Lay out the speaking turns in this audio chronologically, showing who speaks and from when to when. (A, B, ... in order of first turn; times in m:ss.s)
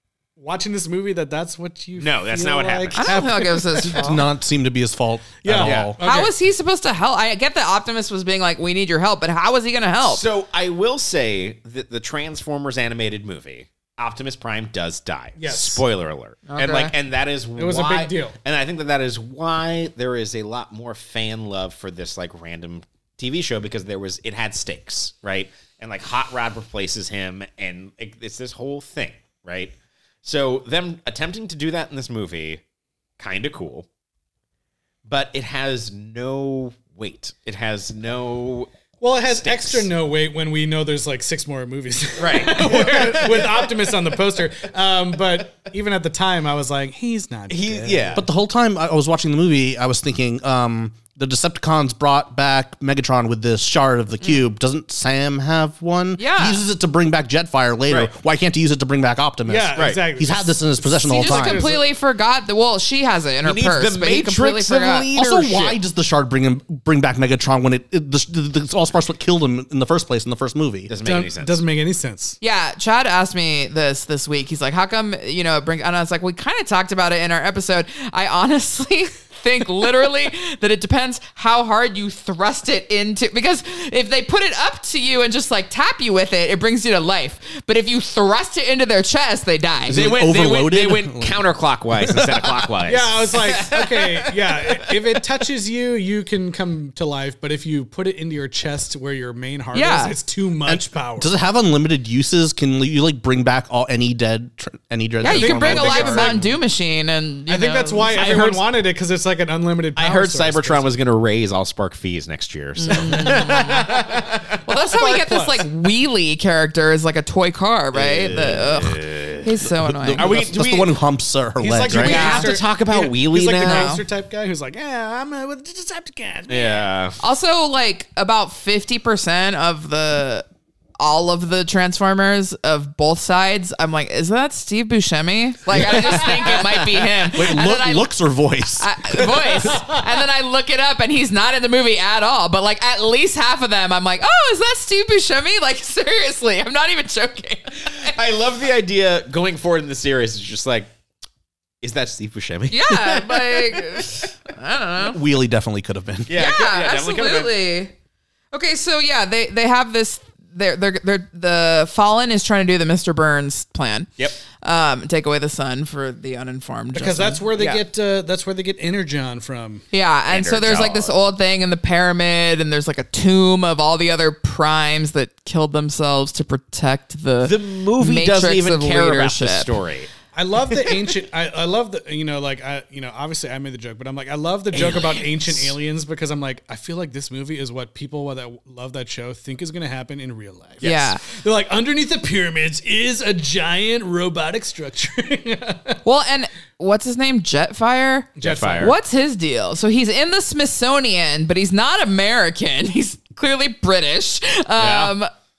0:00.4-0:04.2 A
0:02.0-0:03.3 B
0:03.0-0:04.2 C
0:03.8-0:06.0 D
0:05.4-0:06.3 A
0:05.6-0:06.0 B
0:06.0-0:10.2 C
0:10.0-0:32.6 B
0:15.4-0:15.8 A
0:16.5-0:16.9 C
0:17.6-0:18.3 A
0:33.2-0:33.9 B
0:35.0-0:38.7 B
0:39.0-0:48.2 A
0:39.2-0:39.9 B
0:42.2-0:44.2 B
0:47.5-0:48.2 B
0:48.1-1:01.7 D
0:56.2-0:56.6 C
0:59.4-1:01.8 A
0:59.8-1:00.0 B
1:01.0-1:05.1 C
1:03.4-1:05.8 B
1:05.1-1:10.9 D
1:10.9-1:11.6 B
1:11.0-1:12.4 A
1:12.4-1:30.0 C
1:29.9-1:32.7 D
1:29.9-1:34.9 B
1:32.9-1:41.3 A
1:39.7-1:40.1 C
1:40.6-1:46.4 D
1:45.2-1:48.5 C
1:45.3-1:46.4 A
1:47.5-1:50.9 A
1:48.1-1:48.6 B
1:50.0-1:54.6 B
1:52.8-1:53.9 C
1:53.2-1:54.0 A
1:54.6-2:00.3 C
1:54.7-1:55.7 A
1:57.9-1:59.5 B
1:59.6-2:02.4 D
2:00.1-2:00.9 B
2:01.6-2:06.8 A
2:01.9-2:04.0 B
2:02.0-2:02.5 C
2:03.6-2:04.0 C
2:06.5-2:07.2 B
2:07.2-2:10.5 C
2:11.0-2:18.1 C
2:15.7-2:17.3 B
2:17.3-2:19.8 D
2:18.8-2:28.2 C
2:27.9-2:30.9 B
2:31.8-2:34.3 B
2:32.7-2:35.2 C
2:35.0-2:36.3 D
2:36.3-2:37.5 B
2:36.3-2:37.9 C
2:38.5-2:44.1 C
2:44.6-2:47.4 C
2:46.9-2:49.8 A
2:47.6-2:47.8 B
2:49.9-2:59.8 C
2:50.3-2:51.2 B
2:57.4-3:00.1 B
3:00.3-3:16.0 A
3:00.7-3:01.1 B
3:04.7-3:05.7 B
3:10.8-3:11.1 B
3:10.8-3:11.2 C
3:16.0-3:25.3 C
3:18.4-3:19.0 A
3:18.4-3:19.0 B
3:24.8-3:25.1 B